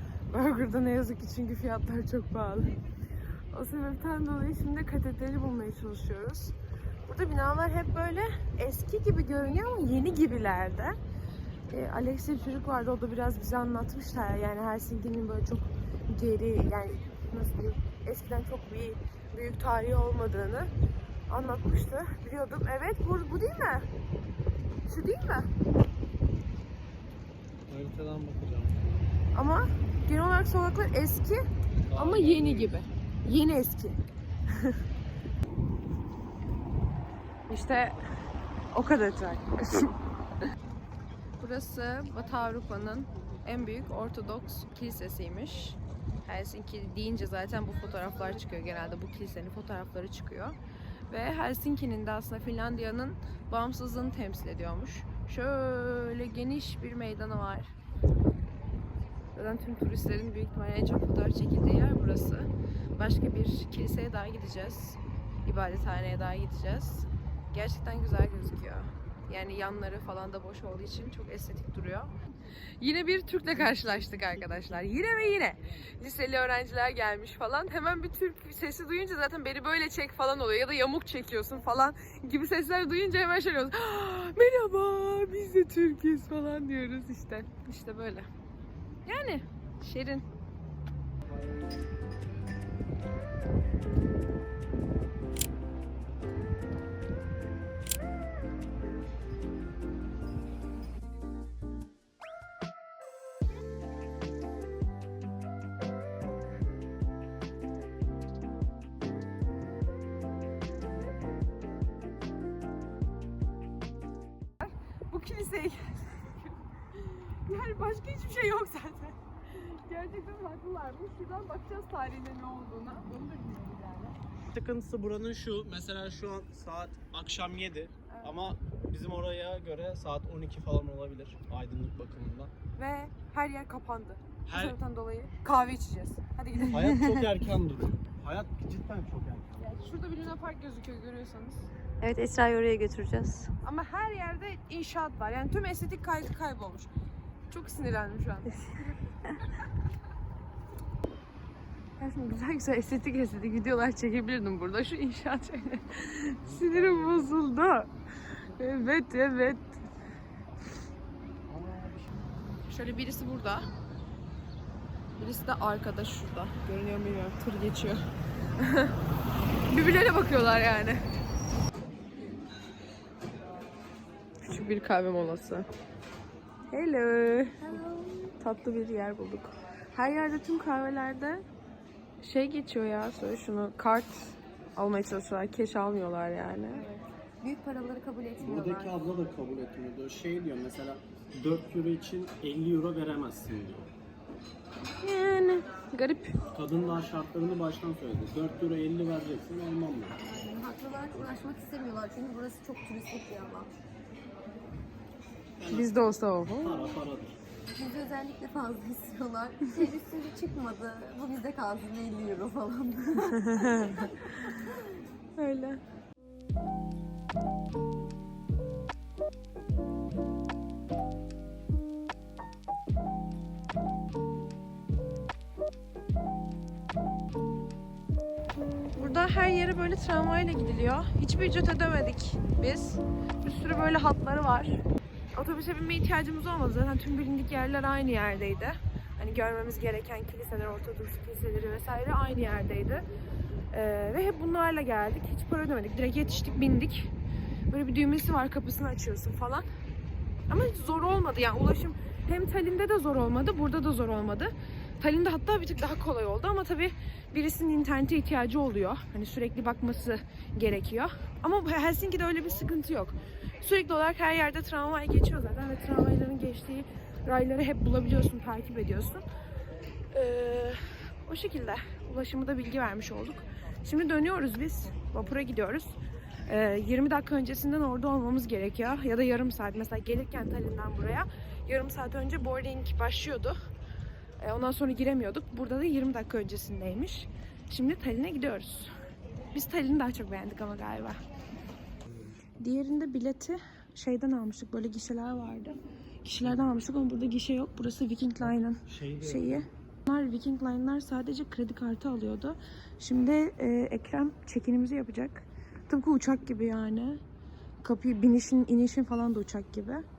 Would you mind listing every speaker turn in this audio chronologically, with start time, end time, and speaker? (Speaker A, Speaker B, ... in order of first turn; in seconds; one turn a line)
Speaker A: 0.3-2.8
Speaker A: 3.5-6.5
Speaker A: 7.1-10.9
Speaker A: 11.7-20.7
Speaker A: 21.3-23.9
Speaker A: 24.9-25.5
Speaker B: 27.7-29.1
Speaker A: 29.3-31.4
Speaker B: 31.9-32.8
Speaker A: 31.9-34.0
Speaker A: 37.5-38.0
Speaker A: 38.7-39.9
Speaker A: 41.4-50.6
Speaker A: 51.1-57.7
Speaker A: 59.3-72.1
Speaker A: 72.8-88.3
Speaker B: 73.6-74.1
Speaker A: 89.0-90.2
Speaker A: 114.6-124.2
Speaker B: 124.5-132.5
Speaker A: 128.1-128.4
Speaker A: 132.7-137.0
Speaker B: 134.5-134.8
Speaker B: 136.7-139.8
Speaker A: 139.6-141.7
Speaker C: 142.0-143.5
Speaker A: 143.6-146.9
Speaker A: 147.5-149.2
Speaker A: 152.0-159.7
Speaker B: 156.4-157.4
Speaker B: 161.5-162.3
Speaker A: 162.7-163.7
Speaker A: 165.2-168.0
Speaker A: 168.6-168.9
Speaker A: 169.7-171.0
Speaker A: 174.4-175.7
Speaker A: 176.7-177.6
Speaker C: 177.6-178.3
Speaker A: 178.4-181.4
Speaker A: 182.2-187.0
Speaker C: 186.9-189.0
Speaker B: 188.4-193.9
Speaker A: 195.0-196.3
Speaker B: 196.5-200.2
Speaker C: 200.2-203.7
Speaker B: 205.6-207.4
Speaker A: 205.7-206.9
Speaker C: 207.7-214.1
Speaker A: 213.3-214.5
Speaker A: 215.3-215.8
Speaker A: 228.9-234.8
Speaker A: 235.3-243.1
Speaker A: 243.7-247.1
Speaker A: 247.7-249.6
Speaker A: 250.5-269.2
Speaker A: 270.1-275.9
Speaker A: 276.5-283.5
Speaker A: 284.4-288.9
Speaker A: 289.5-291.2
Speaker B: 292.0-292.4
Speaker A: 292.6-307.2
Speaker B: 296.4-296.7
Speaker B: 298.4-299.7
Speaker A: 307.8-310.0